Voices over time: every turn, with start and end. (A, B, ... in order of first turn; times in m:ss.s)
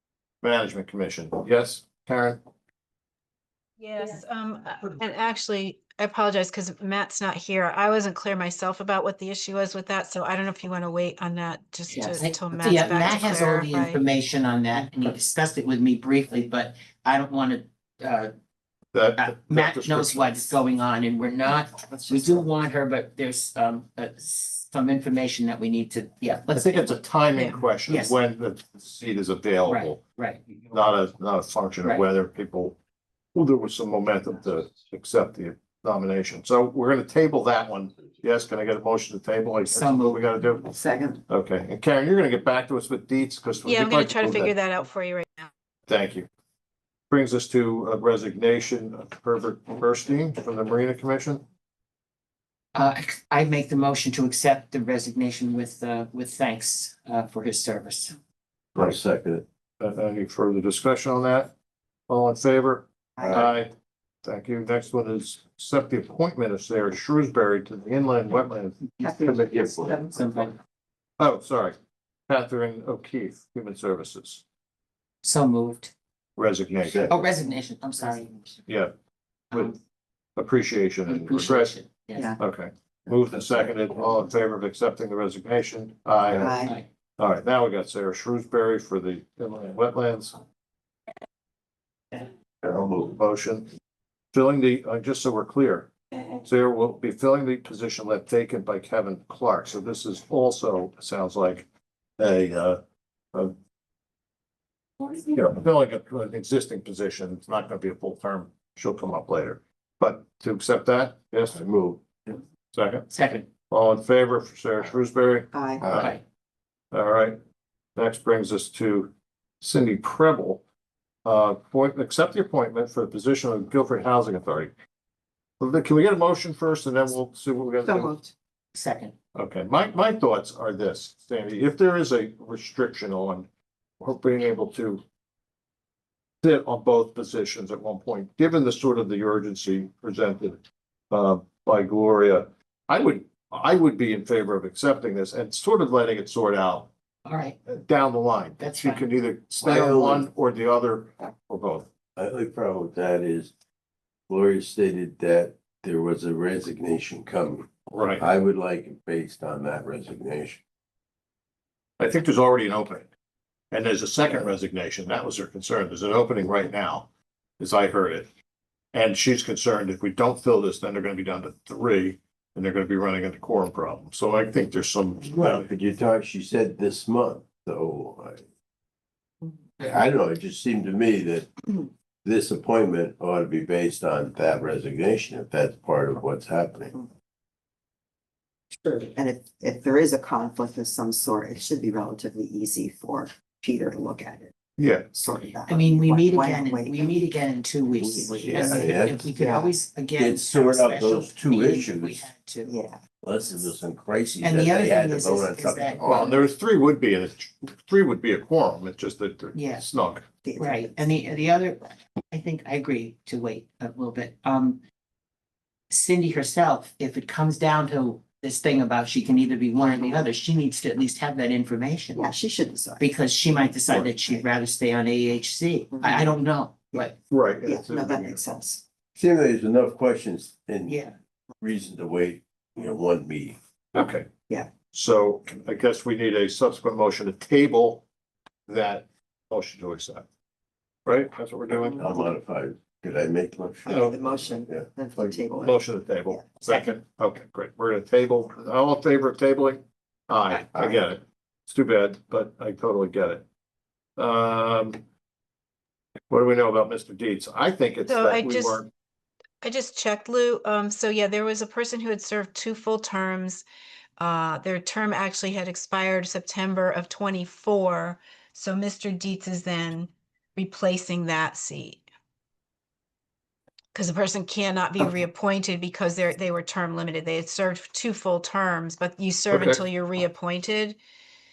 0:00.4-0:02.4 A
0:03.8-0:14.0 B
0:11.9-0:18.3 C
0:18.9-0:20.3 A
0:19.2-0:27.0 C
0:21.9-0:22.3 D
0:26.5-0:30.0 A
0:27.4-0:27.6 B
0:27.8-0:28.2 C
0:29.6-0:30.7 C
0:30.7-0:32.8 A
0:33.4-0:40.7 A
0:39.7-0:40.2 C
0:40.7-0:41.2 D
0:41.3-0:44.5 A
0:43.6-0:45.5 B
0:45.9-0:46.3 A
0:47.1-0:51.4 A
0:52.7-0:58.2 C
0:58.8-0:59.4 E
0:59.8-1:01.5 A
1:02.1-1:03.7 A
1:03.2-1:03.5 D
1:04.2-1:09.7 A
1:09.0-1:10.5 D
1:09.6-1:10.0 E
1:10.1-1:10.5 C
1:11.2-1:11.8 A
1:12.3-1:14.4 A
1:15.2-1:15.9 C
1:16.4-1:17.1 A
1:16.8-1:17.2 E
1:17.1-1:18.3 C
1:18.2-1:18.5 D
1:18.7-1:18.9 A
1:19.5-1:19.8 C
1:20.4-1:21.7 A
1:21.1-1:22.4 C
1:22.4-1:26.6 A
1:23.1-1:23.7 D
1:26.3-1:26.7 D
1:27.2-1:30.4 A
1:32.6-1:33.1 E
1:33.0-1:33.7 A
1:34.3-1:41.7 A
1:42.2-1:42.8 A
1:45.2-1:51.6 A
1:51.5-1:52.0 E
1:52.7-1:53.1 A
1:53.1-1:53.5 C
1:53.7-1:56.2 A
1:55.5-1:55.8 D
1:55.8-1:56.1 E
1:56.9-1:57.4 A
1:58.0-2:00.6 A
2:01.2-2:04.7 A
2:05.6-2:08.1 A
2:07.8-2:08.3 D
2:08.7-2:09.1 C
2:09.4-2:13.5 A
2:14.0-2:15.0 A
2:16.4-2:26.9 A
2:27.3-2:27.6 C
2:27.7-2:31.9 A
2:28.6-2:29.0 C
2:29.6-2:30.3 E
2:32.2-2:33.5 E
2:34.3-2:40.6 E
2:37.9-2:38.3 A
2:42.0-2:43.1 A
2:43.7-2:47.1 A
2:47.6-2:48.3 A
2:48.9-2:55.7 A
2:55.4-2:58.4 E
2:59.8-3:07.0 E
3:08.8-3:14.5 D
3:14.8-3:15.1 A
3:15.1-3:17.1 D
3:15.7-3:22.7 C
3:18.0-3:19.7 D
3:18.3-3:19.3 E
3:20.2-3:22.3 E
3:22.6-3:23.0 D
3:23.2-3:26.3 E
3:24.4-3:26.5 C
3:26.0-3:30.2 A
3:29.5-3:29.8 C
3:30.4-3:30.9 D
3:30.6-3:34.8 C
3:35.9-3:42.3 C
3:39.8-3:40.2 D
3:42.2-3:43.0 D
3:43.0-3:47.2 C
3:45.9-3:46.3 D
3:47.3-3:48.4 A
3:47.6-3:48.8 D
3:49.2-3:51.0 E
3:50.9-3:51.2 C
3:51.6-3:53.6 E
3:53.9-3:54.3 A
3:54.9-3:58.0 A
3:58.7-4:00.3 A
4:01.1-4:02.0 A
4:01.9-4:03.9 E
4:03.8-4:06.4 D
4:03.9-4:04.2 A
4:04.4-4:05.4 E
4:05.6-4:13.4 A
4:06.6-4:07.0 C
4:14.2-4:15.0 A
4:16.3-4:18.9 A
4:18.1-4:18.8 B
4:19.6-4:23.6 B
4:24.2-4:32.0 B
4:33.9-4:41.0 B
4:39.5-4:39.8 A